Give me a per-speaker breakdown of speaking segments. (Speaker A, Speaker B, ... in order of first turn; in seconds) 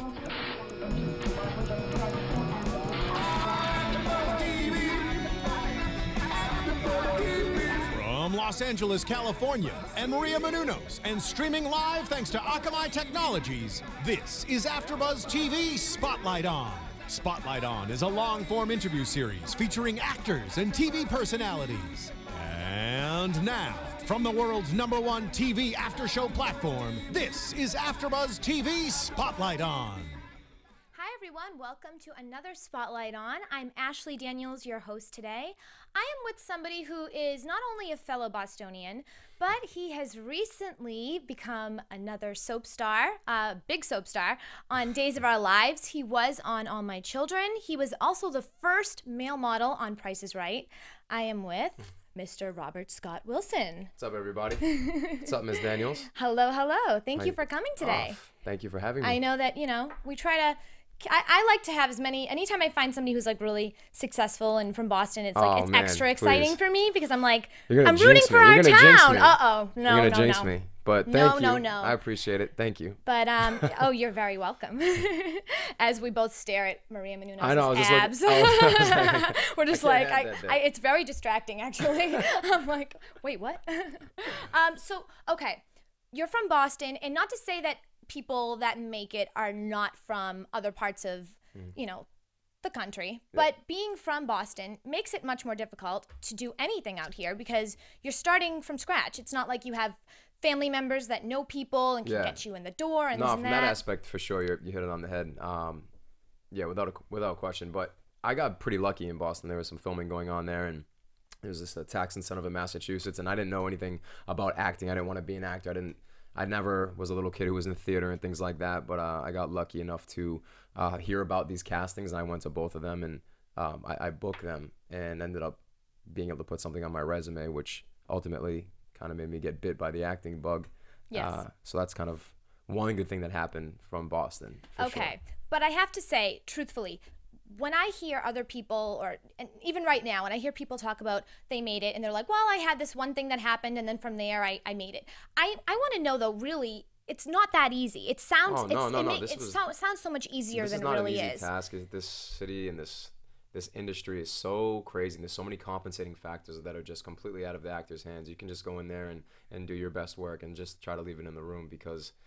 Speaker A: 3.5-5.3, 6.9-30.2
Speaker B: 30.9-53.9, 54.6-55.3, 56.1-58.2, 59.0-70.5, 71.0-72.0, 73.0-92.1, 92.6-103.8, 131.1-131.4, 134.8-151.5
Speaker C: 54.0-56.1, 57.1-59.2, 65.3-66.6, 67.7-73.8, 77.4-80.6, 102.0-102.4, 103.1-105.9, 106.5-110.8, 111.4-135.1, 148.4-149.6, 150.5-162.1